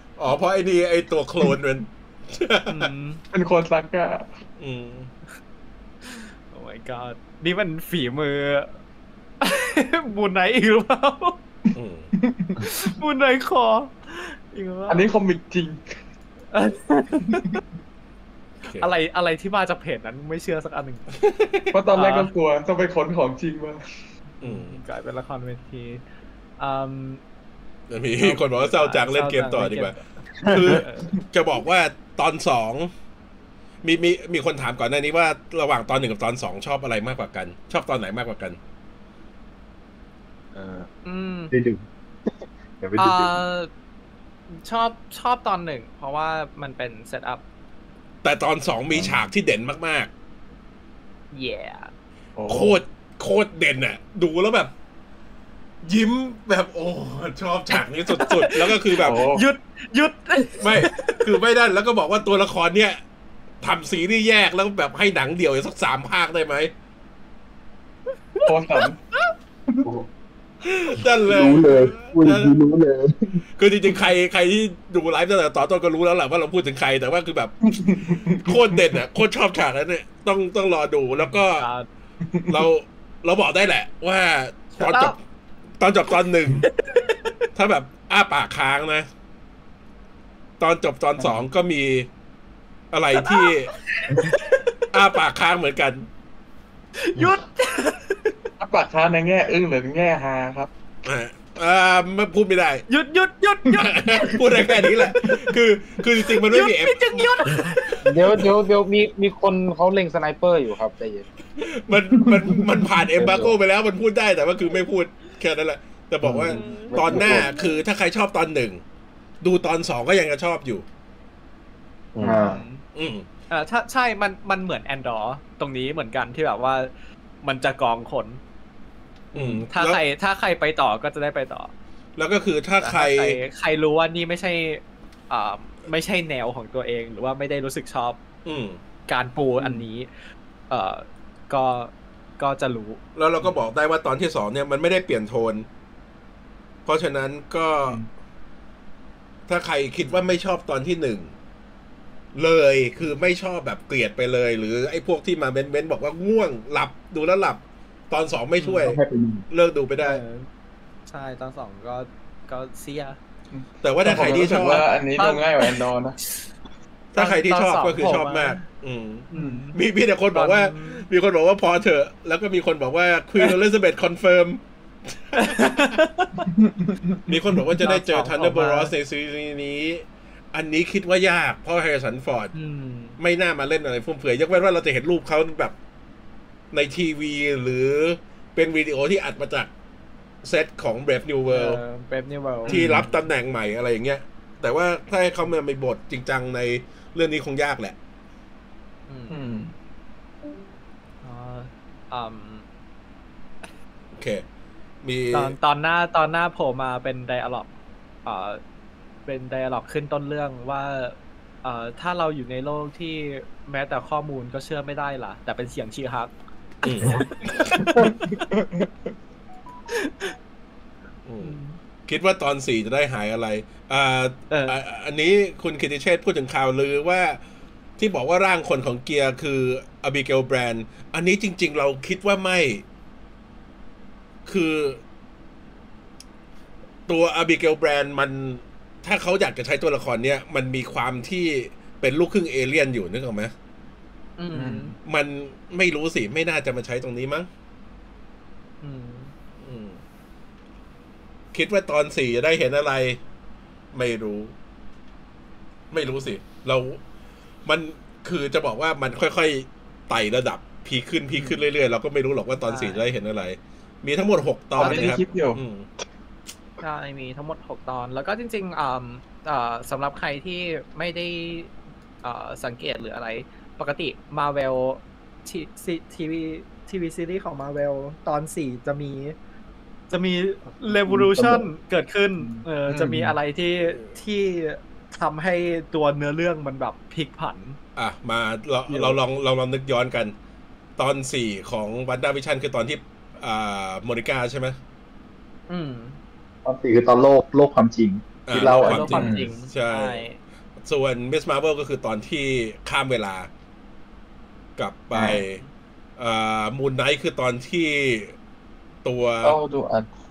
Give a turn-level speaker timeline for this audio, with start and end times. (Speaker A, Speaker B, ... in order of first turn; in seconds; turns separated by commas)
Speaker A: 0.2-2.9, Speaker B: 2.7-3.2, Speaker C: 3.3-4.4, Speaker A: 4.6-5.1, Speaker B: 6.0-8.7, Speaker B: 9.4-11.4, Speaker A: 11.7-12.1, Speaker C: 12.1-12.9, Speaker B: 12.6-15.1, Speaker C: 14.9-15.8, Speaker B: 16.5-17.6, Speaker C: 17.2-17.6, Speaker A: 18.6-18.9, Speaker B: 18.8-21.1, Speaker A: 21.2-21.7, Speaker C: 21.7-23.8, Speaker B: 21.9-22.3, Speaker B: 24.4-26.0, Speaker A: 24.4-24.8, Speaker B: 26.6-27.2, Speaker A: 27.9-32.9, Speaker B: 28.2-31.1, Speaker A: 33.8-38.6, Speaker D: 40.5-40.9, Speaker B: 41.0-41.5, Speaker D: 41.5-41.8, Speaker D: 42.8-43.4, Speaker B: 43.0-43.7, Speaker B: 44.5-47.4, Speaker A: 48.2-50.1, Speaker B: 51.3-51.9, Speaker C: 52.4-52.8, Speaker A: 52.5-54.7, Speaker A: 55.8-59.2, Speaker B: 58.1-61.2, Speaker C: 59.0-59.4, Speaker A: 60.6-63.0, Speaker A: 63.6-66.7, Speaker B: 68.3-69.3, Speaker C: 68.4-69.0, Speaker A: 70.7-72.5, Speaker D: 71.2-73.4, Speaker A: 73.6-77.5, Speaker C: 77.7-78.8, Speaker A: 78.4-81.7, Speaker B: 81.2-81.9, Speaker C: 82.2-82.7, Speaker A: 82.5-85.2, Speaker B: 84.7-85.2, Speaker A: 85.8-86.7, Speaker B: 86.7-87.4, Speaker A: 87.5-89.1, Speaker A: 90.6-92.1, Speaker A: 92.9-93.7, Speaker B: 93.2-94.8, Speaker A: 94.9-96.1, Speaker B: 97.0-98.3, Speaker C: 98.6-100.7, Speaker A: 101.0-102.8, Speaker B: 102.9-104.4, Speaker A: 103.8-107.3, Speaker B: 106.3-108.0, Speaker E: 108.0-111.2, Speaker A: 111.6-118.8, Speaker D: 113.2-113.5, Speaker E: 113.2-113.5, Speaker D: 116.2-116.5, Speaker E: 116.3-117.6, Speaker B: 116.5-117.4, Speaker D: 117.1-117.5, Speaker A: 119.4-120.8, Speaker E: 122.1-122.5, Speaker D: 122.2-122.6, Speaker B: 122.3-122.8, Speaker A: 122.9-123.2, Speaker B: 123.5-128.4, Speaker A: 129.3-130.0, Speaker C: 129.3-129.6, Speaker B: 129.7-131.7, Speaker A: 132.2-133.4, Speaker B: 132.8-138.2, Speaker A: 138.4-138.8, Speaker B: 139.1-140.1, Speaker C: 139.6-139.8, Speaker B: 140.7-143.0, Speaker A: 143.2-145.7, Speaker A: 146.8-148.0, Speaker A: 149.5-151.3, Speaker A: 152.3-159.0, Speaker B: 158.6-158.9, Speaker D: 158.8-159.4, Speaker A: 159.5-160.2, Speaker B: 160.0-160.5, Speaker B: 161.1-163.2, Speaker C: 163.5-166.2, Speaker A: 163.8-164.8, Speaker B: 165.2-165.8, Speaker A: 167.1-175.9, Speaker B: 167.1-168.6, Speaker B: 169.3-169.8, Speaker C: 169.3-169.6, Speaker B: 170.3-171.1, Speaker B: 175.3-176.5, Speaker C: 176.4-177.2, Speaker A: 177.2-182.5, Speaker B: 177.8-178.9, Speaker B: 182.5-183.2, Speaker A: 183.2-185.7, Speaker A: 186.7-189.7, Speaker A: 190.4-191.8, Speaker B: 191.5-192.8, Speaker C: 192.7-193.1, Speaker A: 192.7-197.9, Speaker B: 199.1-199.4, Speaker C: 199.3-199.7, Speaker B: 201.2-202.6, Speaker A: 204.1-204.4, Speaker A: 205.0-205.5, Speaker B: 205.3-207.7, Speaker B: 208.2-208.6, Speaker B: 209.2-216.3, Speaker A: 216.8-218.1, Speaker B: 217.0-218.5, Speaker C: 217.8-218.9, Speaker B: 219.9-220.3, Speaker A: 221.2-227.4, Speaker B: 221.4-221.8, Speaker B: 224.5-224.8, Speaker A: 228.0-232.8, Speaker A: 234.4-235.0, Speaker A: 237.1-243.5, Speaker B: 244.4-244.9, Speaker C: 244.5-244.9, Speaker A: 245.0-247.5, Speaker B: 248.8-249.3, Speaker A: 249.6-250.0, Speaker A: 251.5-253.2, Speaker A: 253.9-254.5, Speaker A: 255.9-257.0, Speaker A: 257.6-265.9, Speaker B: 262.6-263.0, Speaker B: 264.8-265.1, Speaker C: 264.8-265.6, Speaker B: 266.8-279.3, Speaker B: 280.1-287.8, Speaker D: 280.9-281.7, Speaker C: 282.9-283.4, Speaker A: 287.9-290.3, Speaker A: 291.0-294.8, Speaker B: 295.7-296.2, Speaker D: 296.6-299.3, Speaker A: 298.4-300.2, Speaker B: 298.5-300.4, Speaker C: 299.1-299.5, Speaker A: 300.8-303.5, Speaker A: 304.8-305.6, Speaker C: 305.1-305.4, Speaker A: 306.2-308.3, Speaker A: 309.0-309.6, Speaker C: 309.4-310.1